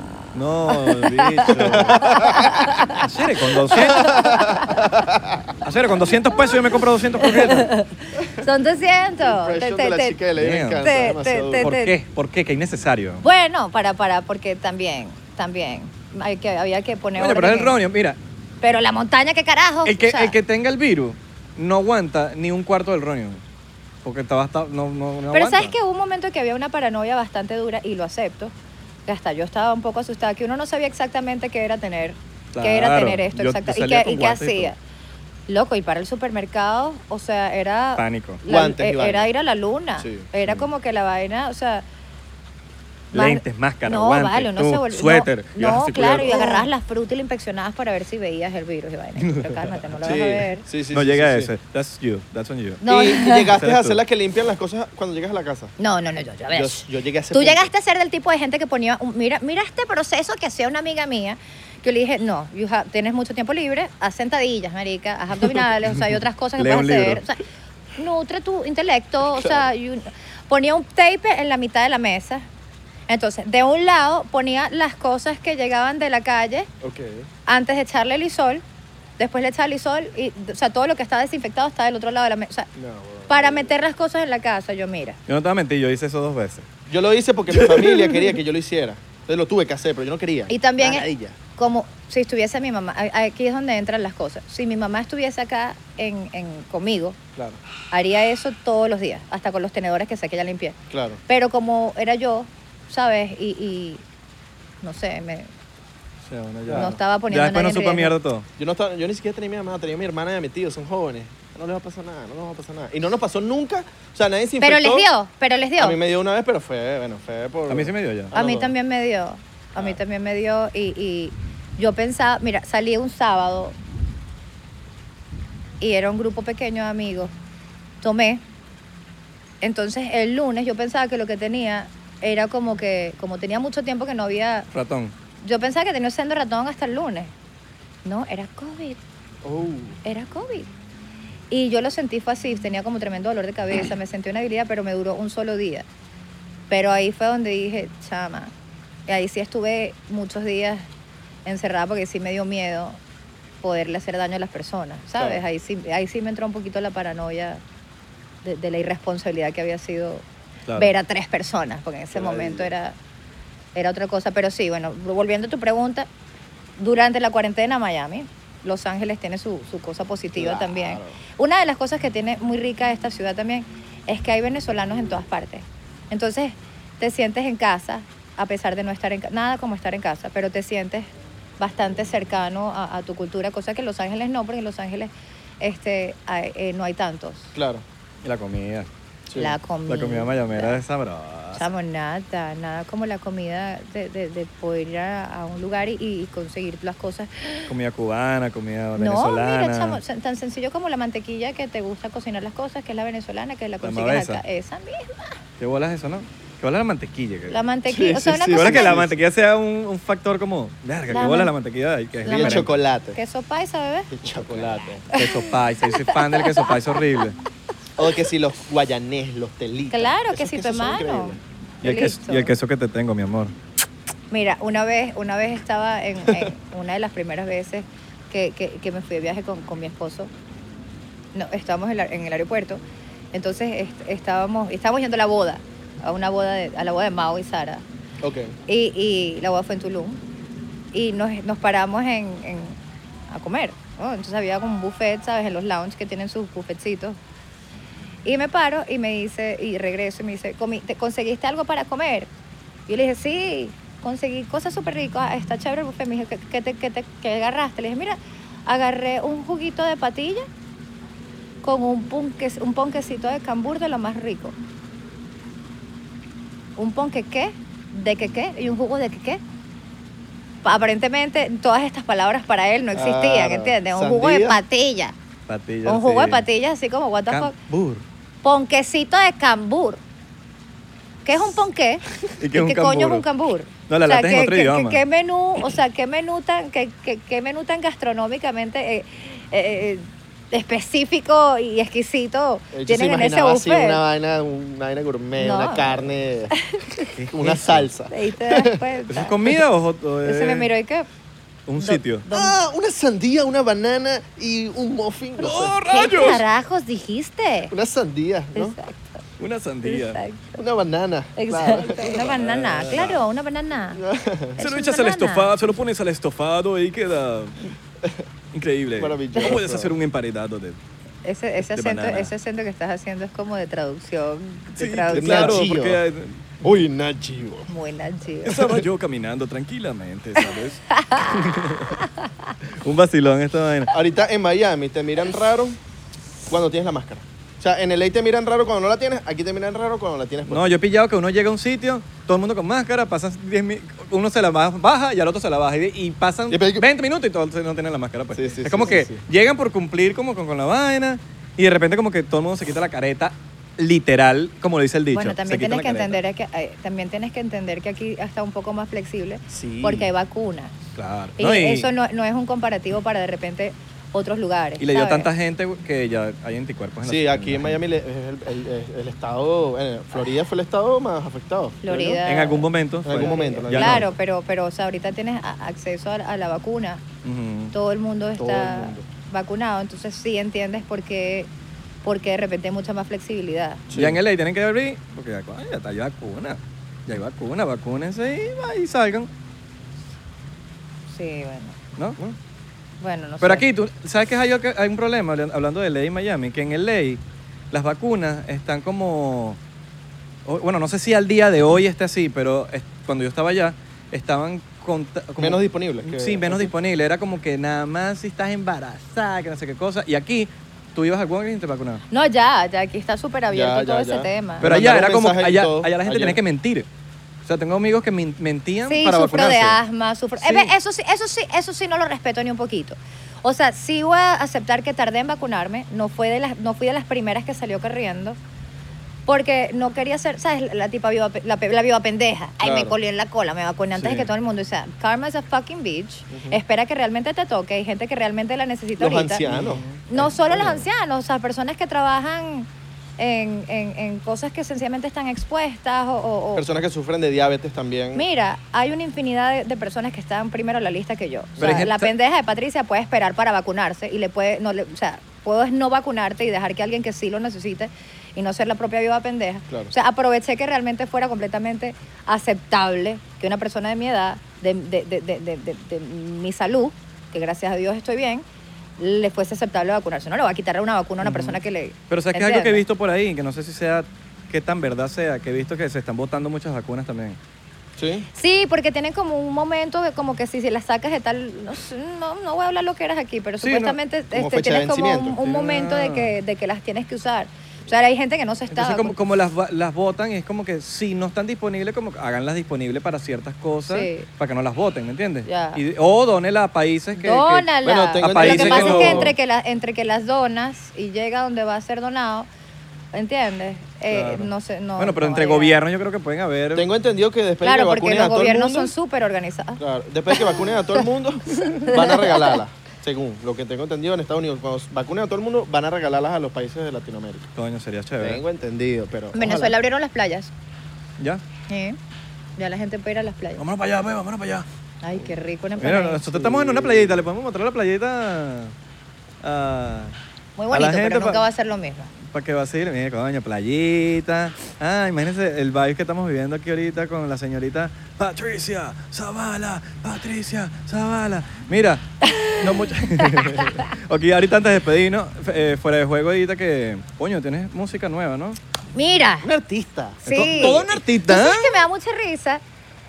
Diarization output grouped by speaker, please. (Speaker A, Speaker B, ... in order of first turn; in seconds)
Speaker A: 0.3-2.2, 2.9-4.2, 5.6-7.7, 10.3-10.8, 11.6-13.2, 17.1-18.2, 19.8-23.4, 24.0-25.7, 32.5-34.7, 38.0-38.4, 43.1-46.6, 49.2-50.2, 50.9-52.8, 53.4-54.0, 66.6-67.2, 85.3-86.7, 87.5-88.3, 106.2-108.5, 117.7-118.3, 134.7-135.1, 160.7-160.9, 188.2-188.9, 189.9-191.7, 197.7-200.0, 203.8-204.4, 205.6-207.6, 208.5-212.7, 214.4-217.3, 221.8-223.5, 275.5-276.4, 277.3-278.0, 282.4-283.2, 283.9-285.0, 297.1-297.9, 299.1-300.7, 301.7-302.2, 305.4-306.4, 309.4-310.2, 312.2-313.2, 314.6-317.7, 318.5-320.8, 321.6-322.3, 324.8-326.4, 328.4-332.0, 332.8-333.9, 340.5-356.2, 360.9-361.9, 364.8-367.8, 372.2-374.1, 377.2-377.7, 383.9-389.3, 393.4-399.6, 400.4-412.0, 414.6-416.9, 417.4-419.8, 420.4-420.7, 439.4-440.0, 451.6-452.1, 471.2-471.6, 472.1-477.4, 483.6-484.0, 485.4-486.4, 488.7-499.3, 504.1-506.9, 517.5-518.4, 523.6-524.6, 525.8-528.7, 529.4-530.1, 530.7-531.4, 532.2-548.6, 550.2-551.8
Speaker B: 0.7-3.1, 3.6-4.8, 6.3-6.6, 7.2-10.2, 10.8-11.9, 13.2-17.8, 18.6-20.4, 25.3-28.5, 29.1-34.8, 35.5-41.9, 43.1-50.6, 52.8-53.5, 55.8-67.4, 68.0-72.4, 73.1-76.7, 77.5-78.6, 79.2-82.7, 83.3-85.2, 90.5-97.2, 97.9-100.8, 101.3-104.0, 104.8-105.5, 106.7-108.1, 114.6-116.0, 118.3-123.8, 125.8-127.3, 128.0-128.4, 129.6-134.7, 135.4-137.3, 138.0-139.0, 140.0-140.7, 141.5-145.8, 146.7-148.5, 149.1-150.9, 151.4-153.0, 153.6-157.6, 158.4-162.9, 163.7-166.1, 166.8-187.5, 189.3-190.8, 191.5-197.7, 198.9-205.4, 207.5-209.0, 211.1-211.5, 212.2-214.1, 215.1-216.9, 219.9-222.5, 224.3-230.3, 231.3-232.8, 233.3-237.8, 238.7-240.2, 240.9-247.2, 248.2-252.3, 252.9-260.5, 261.6-264.6, 266.8-269.4, 270.6-275.1, 275.8-277.5, 278.4-280.0, 281.2-294.0, 295.4-295.9, 296.5-297.0, 298.1-299.5, 300.2-301.1, 301.8-302.6, 305.5-307.7, 308.5-309.2, 309.8-310.6, 311.4-314.0, 314.6-315.6, 321.2-325.6, 327.7-328.8, 330.9-332.5, 355.1-360.7, 361.4-365.3, 371.8-377.0, 377.7-381.5, 382.0-383.8, 391.1-391.8, 393.0-393.6, 412.1-414.7, 418.9-428.4, 429.3-439.4, 440.1-446.7, 448.1-468.4, 469.0-472.8, 478.3-489.2, 493.9-494.3, 495.4-495.8, 497.1-502.5, 503.1-505.8, 507.6-510.9, 511.6-512.5, 519.3-520.5, 521.7-522.0, 522.6-523.6, 525.0-526.2, 530.6-532.1, 542.2-543.9, 548.9-549.5, 550.2-552.6
Speaker C: 1.5-2.6, 3.9-5.5, 9.2-11.7, 38.5-39.3, 40.0-40.3, 50.0-51.5, 52.8-55.7, 56.5-57.7, 69.4-69.6, 76.8-77.3, 82.7-83.7, 86.9-91.4, 100.9-101.2, 106.6-107.0, 108.6-115.1, 115.8-118.7, 139.4-140.0, 155.2-155.4, 162.1-162.7, 170.3-171.2, 187.5-187.8, 189.3-189.6, 207.9-209.2, 212.2-213.2, 214.1-215.0, 218.0-221.4, 238.2-238.5, 272.9-274.6, 292.7-296.5, 297.3-298.8, 302.3-305.8, 307.7-308.8, 310.6-312.4, 313.9-314.6, 319.0-319.9, 325.1-326.0, 326.6-327.7, 333.9-335.8, 336.5-340.7, 346.5-346.9, 348.3-349.2, 359.5-360.1, 367.0-372.2, 373.0-374.1, 378.4-379.0, 383.9-384.2, 405.4-406.7, 413.5-416.4, 432.6-432.9, 436.3-436.6, 439.0-440.9, 446.5-448.2, 451.6-451.9, 478.0-478.3, 484.3-485.4, 497.8-499.3, 506.7-508.9, 509.8-517.5, 518.2-519.8, 526.3-527.3, 549.4-551.0